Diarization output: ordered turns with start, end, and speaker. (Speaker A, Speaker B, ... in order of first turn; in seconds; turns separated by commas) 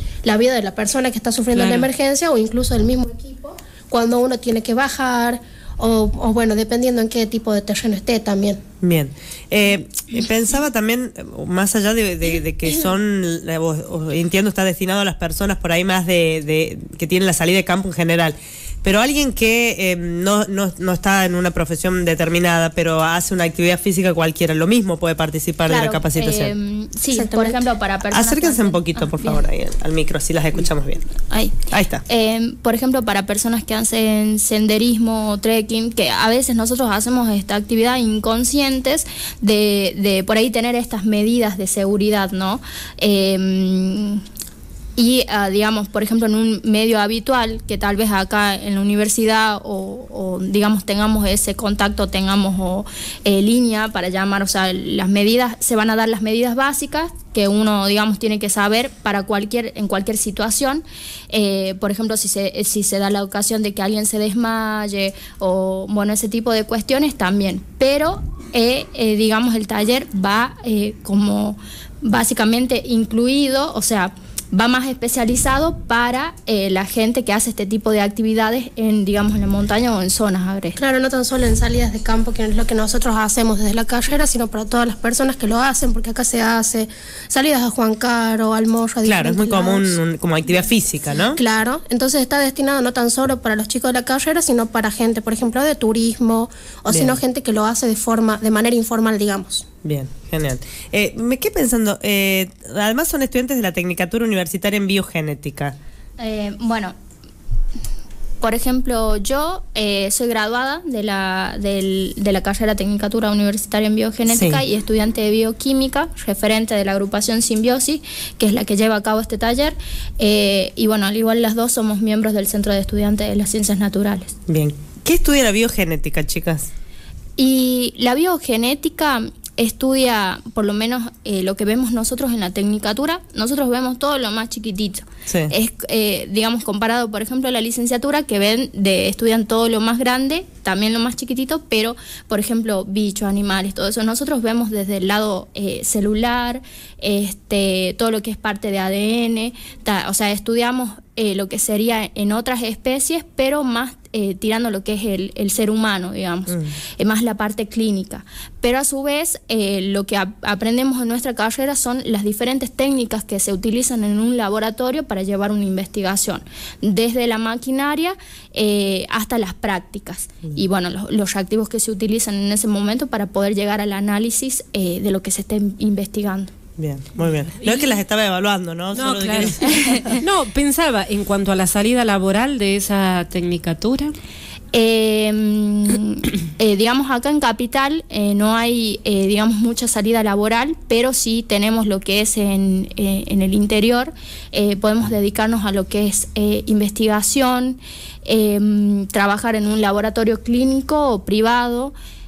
Speaker A: 0.2-8.6, Speaker B: 1.5-1.9, Speaker C: 8.8-26.5, Speaker D: 25.7-29.4, Speaker A: 27.1-27.6, Speaker C: 28.1-31.0, Speaker D: 31.3-44.2, Speaker C: 31.7-32.0, Speaker D: 45.0-80.8, Speaker A: 80.8-90.0, Speaker C: 89.0-91.4, Speaker A: 91.3-99.6, Speaker C: 96.9-97.2, Speaker C: 99.8-105.7, Speaker D: 106.2-107.0, Speaker D: 108.4-124.3, Speaker C: 114.3-114.6, Speaker C: 124.5-126.7, Speaker D: 127.4-176.5, Speaker C: 135.3-135.5, Speaker C: 176.8-179.8, Speaker B: 178.9-184.2, Speaker D: 179.7-180.0, Speaker D: 184.7-201.9